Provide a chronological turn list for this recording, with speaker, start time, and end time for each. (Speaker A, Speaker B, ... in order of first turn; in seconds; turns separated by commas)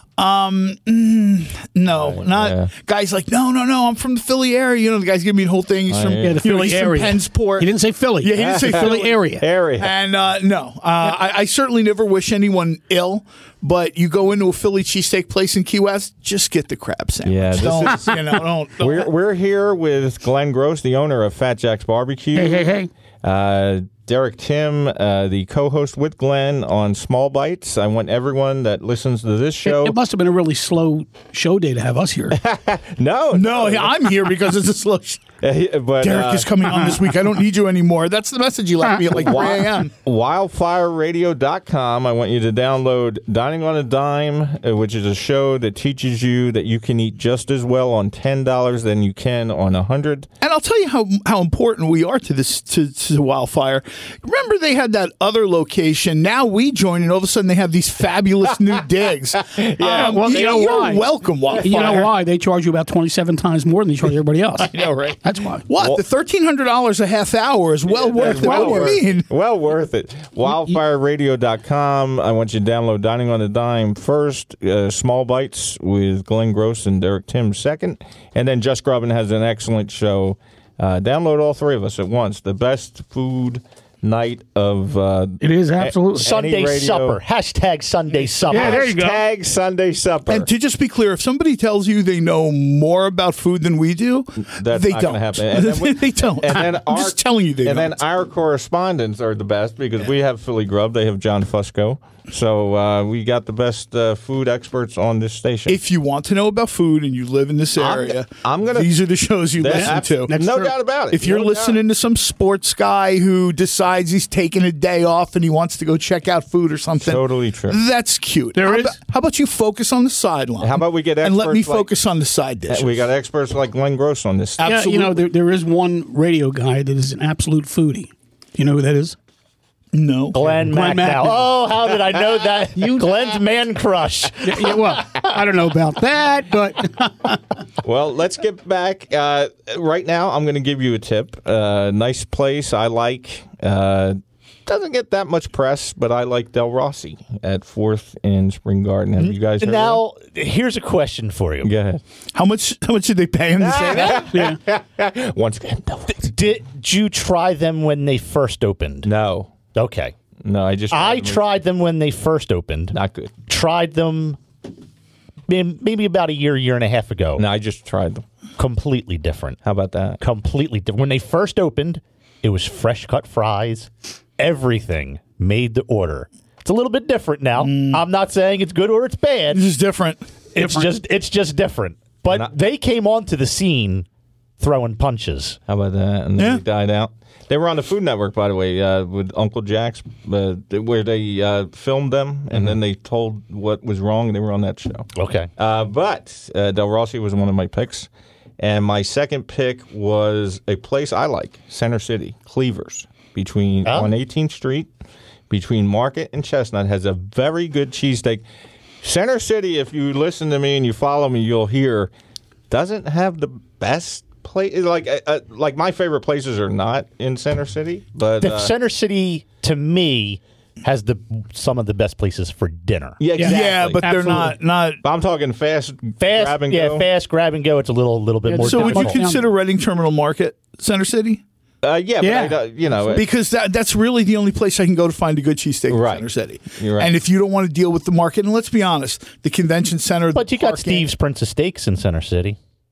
Speaker A: 0.2-9.2, Speaker B: 1.9-2.7, Speaker B: 5.9-6.4, Speaker C: 6.1-9.4, Speaker B: 8.4-9.9, Speaker A: 9.8-19.1, Speaker B: 17.2-18.2, Speaker B: 18.8-22.7, Speaker C: 22.4-22.9, Speaker B: 23.2-30.0, Speaker C: 29.6-32.4, Speaker B: 32.3-34.1, Speaker A: 33.3-35.2, Speaker B: 35.4-36.8, Speaker A: 36.0-39.9, Speaker B: 39.1-50.3, Speaker A: 50.4-62.1, Speaker B: 59.5-60.9, Speaker C: 59.8-65.7, Speaker B: 61.5-61.9, Speaker A: 64.7-69.3, Speaker B: 67.8-87.2, Speaker C: 68.2-69.0, Speaker C: 85.4-86.3, Speaker D: 86.1-88.8, Speaker C: 88.5-89.2, Speaker B: 88.5-90.5, Speaker A: 90.3-98.0, Speaker B: 94.5-105.8, Speaker A: 105.7-110.3, Speaker B: 107.8-108.9, Speaker B: 109.6-111.8, Speaker C: 109.6-110.7, Speaker A: 111.1-123.1, Speaker B: 117.0-117.8, Speaker C: 118.5-119.0, Speaker B: 120.6-121.9, Speaker B: 122.7-124.6, Speaker A: 124.6-125.2, Speaker C: 124.6-129.2, Speaker A: 129.9-130.7, Speaker D: 130.3-135.3, Speaker C: 130.5-131.5, Speaker C: 132.8-133.1, Speaker C: 134.4-137.4, Speaker B: 137.8-150.0, Speaker D: 149.2-151.7, Speaker B: 151.6-152.0, Speaker A: 152.3-154.3, Speaker B: 153.6-156.3, Speaker C: 154.0-154.6, Speaker D: 156.2-159.1, Speaker B: 159.0-159.5, Speaker D: 159.7-160.1, Speaker B: 160.4-161.5, Speaker D: 160.9-164.4, Speaker B: 162.9-163.3, Speaker D: 165.5-167.4, Speaker B: 167.4-168.2, Speaker D: 168.6-169.6, Speaker B: 169.6-170.2, Speaker D: 170.2-179.6, Speaker A: 177.6-178.0, Speaker A: 179.5-180.2, Speaker D: 180.5-184.1, Speaker C: 180.6-180.9, Speaker B: 182.3-182.5, Speaker D: 184.6-185.6, Speaker B: 185.7-198.1, Speaker A: 186.3-186.6, Speaker D: 195.1-195.5, Speaker B: 198.6-204.9, Speaker D: 203.8-204.1, Speaker B: 205.5-208.4, Speaker B: 209.0-212.1, Speaker B: 212.7-218.7, Speaker D: 218.4-223.2, Speaker B: 223.2-224.4, Speaker C: 223.3-224.6, Speaker A: 223.4-225.0, Speaker B: 225.0-227.1, Speaker D: 226.2-229.2, Speaker C: 228.4-229.4, Speaker A: 228.6-231.4, Speaker B: 231.8-233.3, Speaker C: 232.2-232.6, Speaker A: 233.1-241.1, Speaker B: 235.9-236.2, Speaker B: 236.8-237.1, Speaker D: 240.3-242.6